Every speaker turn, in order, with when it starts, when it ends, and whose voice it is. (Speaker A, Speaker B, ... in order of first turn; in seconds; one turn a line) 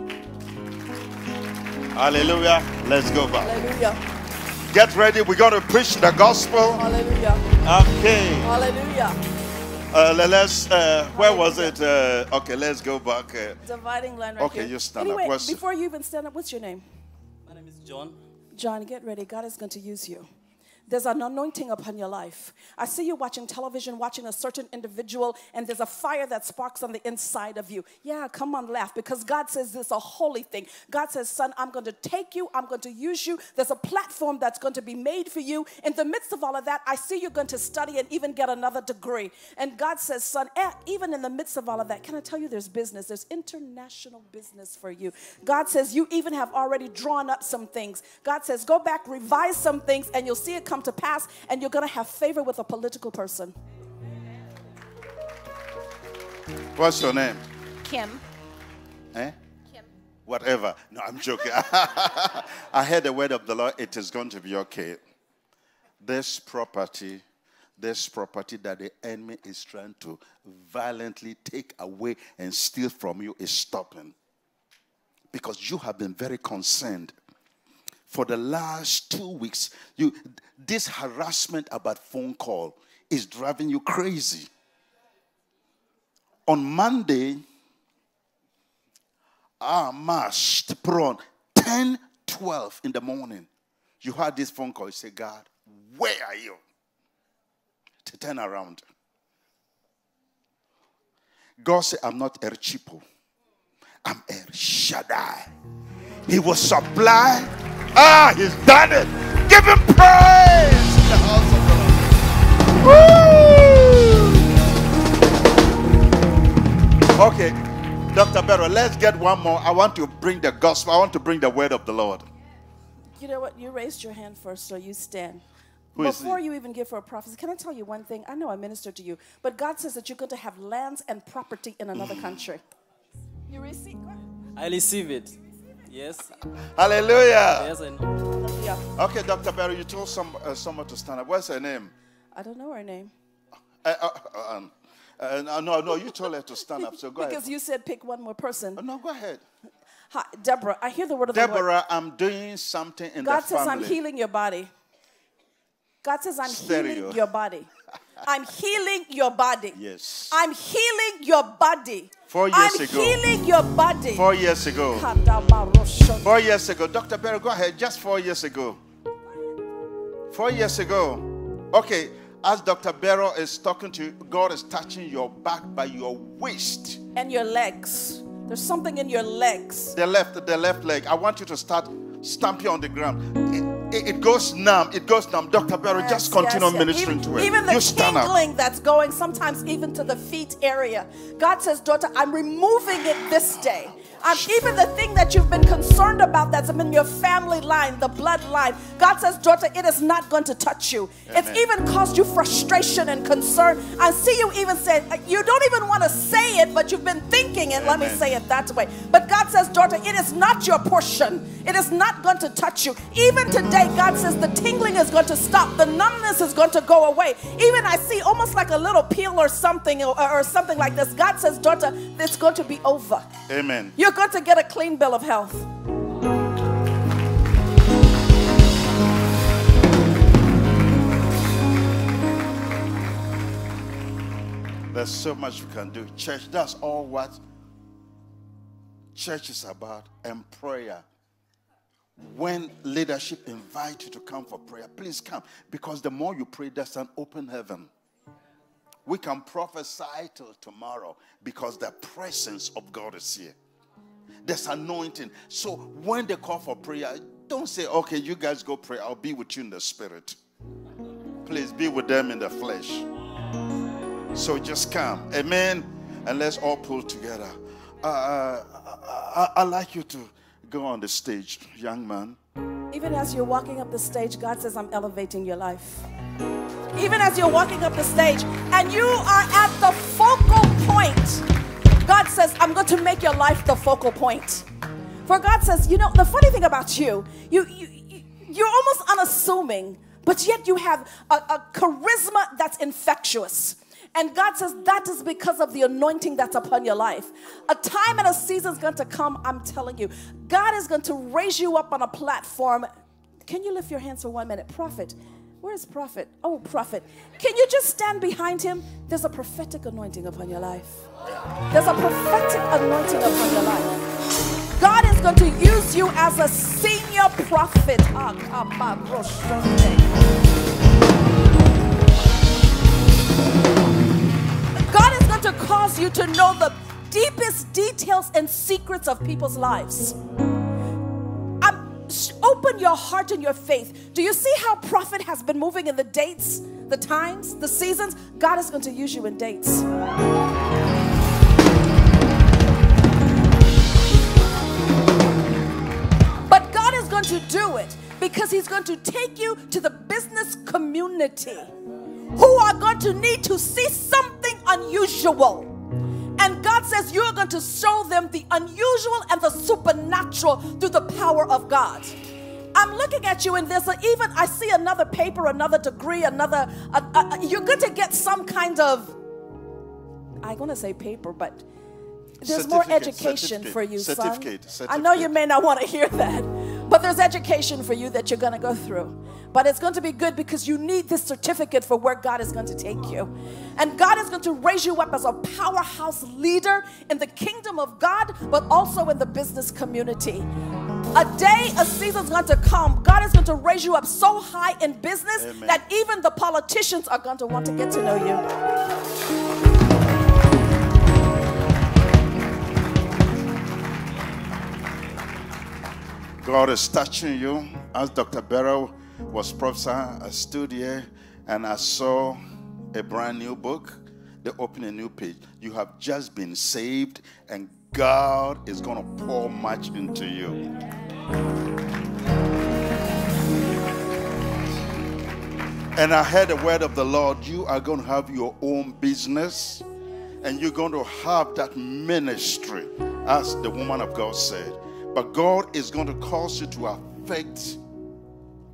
Speaker A: 1.9-3.6
Speaker B: 3.4-4.0
Speaker A: 4.7-6.8
Speaker B: 6.7-7.5
Speaker A: 7.6-8.5
Speaker B: 8.4-9.2
Speaker A: 9.9-13.6
Speaker B: 11.1-11.8
Speaker B: 13.6-16.9
Speaker A: 14.4-15.6
Speaker C: 17.5-18.2
Speaker B: 18.5-20.3
Speaker B: 20.9-53.5
Speaker A: 56.8-57.4
Speaker B: 57.9-58.2
Speaker A: 60.3-65.0
Speaker A: 66.0-67.2
Speaker A: 67.8-74.2
Speaker A: 75.3-77.1
Speaker A: 78.1-84.5
Speaker A: 86.5-87.4
Speaker A: 89.6-93.5
Speaker A: 94.0-96.6
Speaker A: 98.0-98.8
Speaker A: 101.6-103.0
Speaker A: 104.0-105.5
Speaker A: 106.3-112.2
Speaker A: 112.8-114.5
Speaker A: 117.2-117.6
Speaker A: 118.1-122.2
Speaker B: 123.2-125.4
Speaker A: 126.0-126.4
Speaker B: 126.0-132.6
Speaker A: 131.9-132.4
Speaker B: 133.5-134.2
Speaker C: 134.6-135.4
Speaker C: 135.9-136.3
Speaker A: 136.8-137.7
Speaker C: 137.6-138.0
Speaker B: 138.4-138.9
Speaker A: 139.0-141.9
Speaker B: 142.3-143.1
Speaker A: 143.8-147.4
Speaker B: 146.8-148.8
Speaker A: 148.8-149.4
Speaker B: 150.1-151.7
Speaker A: 151.3-154.0
Speaker B: 153.2-154.7
Speaker B: 156.0-157.7
Speaker A: 156.4-157.2
Speaker B: 158.2-159.8
Speaker A: 159.7-160.4
Speaker B: 160.3-166.4
Speaker A: 162.3-163.3
Speaker A: 164.2-165.1
Speaker A: 166.2-168.8
Speaker A: 170.3-177.0
Speaker B: 177.2-179.9
Speaker A: 179.9-188.3
Speaker B: 185.9-223.3
Speaker A: 193.5-194.6
Speaker A: 201.3-201.7
Speaker A: 207.7-208.2
Speaker A: 223.5-223.9
Speaker B: 224.0-225.7
Speaker A: 234.9-237.4
Speaker A: 239.2-241.0
Speaker A: 242.2-247.9
Speaker A: 249.1-253.6
Speaker A: 254.4-260.4
Speaker A: 261.4-263.1
Speaker A: 264.3-272.4
Speaker B: 272.9-276.1
Speaker B: 276.9-281.5
Speaker B: 282.0-284.7
Speaker B: 285.3-302.9
Speaker B: 303.4-311.1
Speaker B: 311.7-314.0
Speaker B: 314.8-320.2
Speaker B: 324.9-330.2
Speaker B: 331.6-339.9
Speaker B: 346.5-351.7
Speaker B: 352.4-355.8
Speaker B: 356.4-362.2
Speaker B: 362.7-369.2
Speaker B: 370.4-371.6
Speaker A: 372.4-375.3
Speaker B: 372.4-390.5
Speaker B: 391.1-398.4
Speaker A: 395.4-395.8
Speaker A: 406.4-412.4
Speaker A: 412.9-420.6
Speaker A: 425.9-429.8
Speaker A: 430.4-437.8